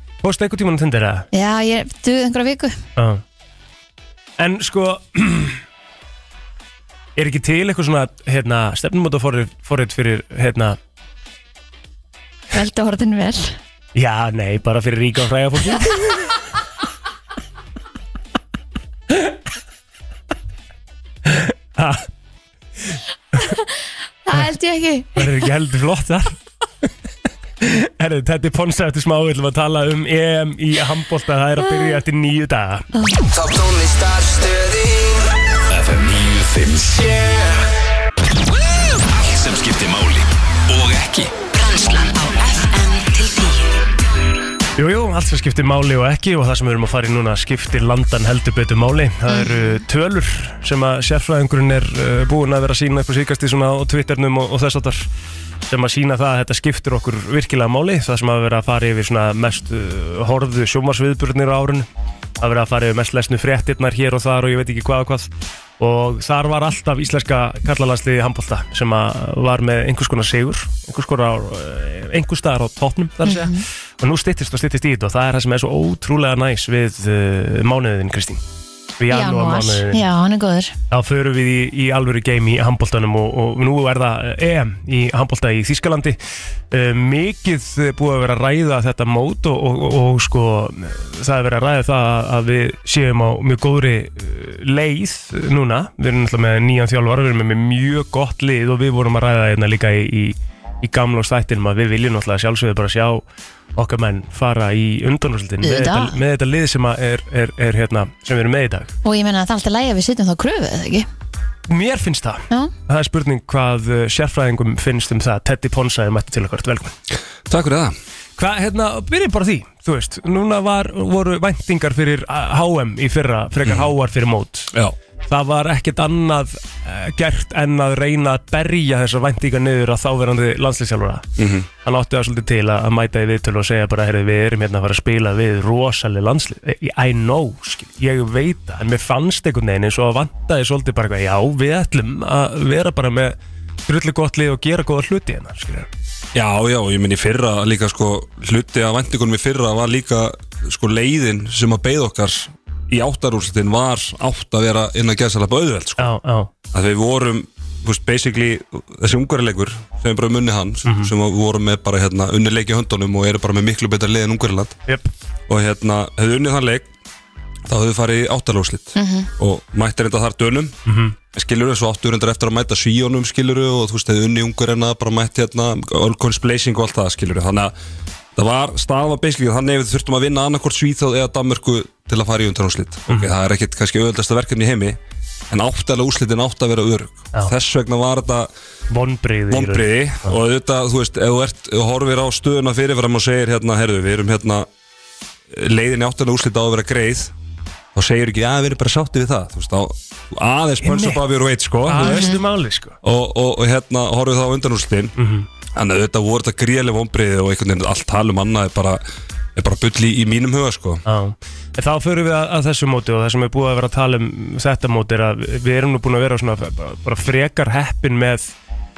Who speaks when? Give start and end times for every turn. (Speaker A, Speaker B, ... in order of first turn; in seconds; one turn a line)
Speaker A: 0.2-1.3
Speaker B: 1.3-2.8
Speaker A: 3.0-3.2
Speaker A: 4.4-5.6
Speaker A: 7.2-10.8
Speaker B: 12.5-13.6
Speaker A: 13.9-16.3
Speaker A: 19.1-19.4
Speaker A: 21.2-22.0
Speaker B: 24.2-25.4
Speaker A: 25.1-26.4
Speaker A: 27.6-32.9
Speaker B: 31.7-32.0
Speaker B: 32.9-33.2
Speaker C: 33.4-34.7
Speaker C: 35.7-37.7
Speaker C: 39.0-41.3
Speaker D: 41.5-43.7
Speaker A: 44.8-55.1
Speaker B: 49.3-49.5
Speaker A: 55.6-61.9
Speaker A: 62.4-78.4
Speaker B: 73.2-73.6
Speaker A: 79.0-80.0
Speaker B: 79.1-80.8
Speaker A: 80.9-86.2
Speaker A: 86.7-103.2
Speaker A: 103.7-108.9
Speaker B: 105.6-106.2
Speaker B: 109.0-111.1
Speaker A: 111.7-117.0
Speaker E: 117.5-117.9
Speaker A: 118.4-124.7
Speaker E: 123.6-123.9
Speaker A: 125.2-131.3
Speaker E: 131.4-131.7
Speaker A: 131.8-145.9
Speaker E: 146.3-156.1
Speaker A: 156.0-156.5
Speaker E: 156.7-164.8
Speaker A: 160.8-161.1
Speaker E: 165.5-166.9
Speaker E: 167.7-170.8
Speaker B: 168.9-169.3
Speaker A: 170.8-171.2
Speaker E: 171.3-177.7
Speaker E: 178.3-185.0
Speaker A: 183.1-183.3
Speaker E: 185.5-188.5
Speaker A: 188.9-190.4
Speaker E: 189.5-194.7
Speaker E: 195.5-197.3
Speaker E: 197.9-202.3
Speaker A: 200.8-201.2
Speaker A: 201.8-203.0
Speaker B: 202.0-202.4
Speaker E: 203.0-205.1
Speaker A: 205.2-205.5
Speaker E: 205.7-209.0
Speaker E: 209.6-211.0
Speaker A: 211.0-218.5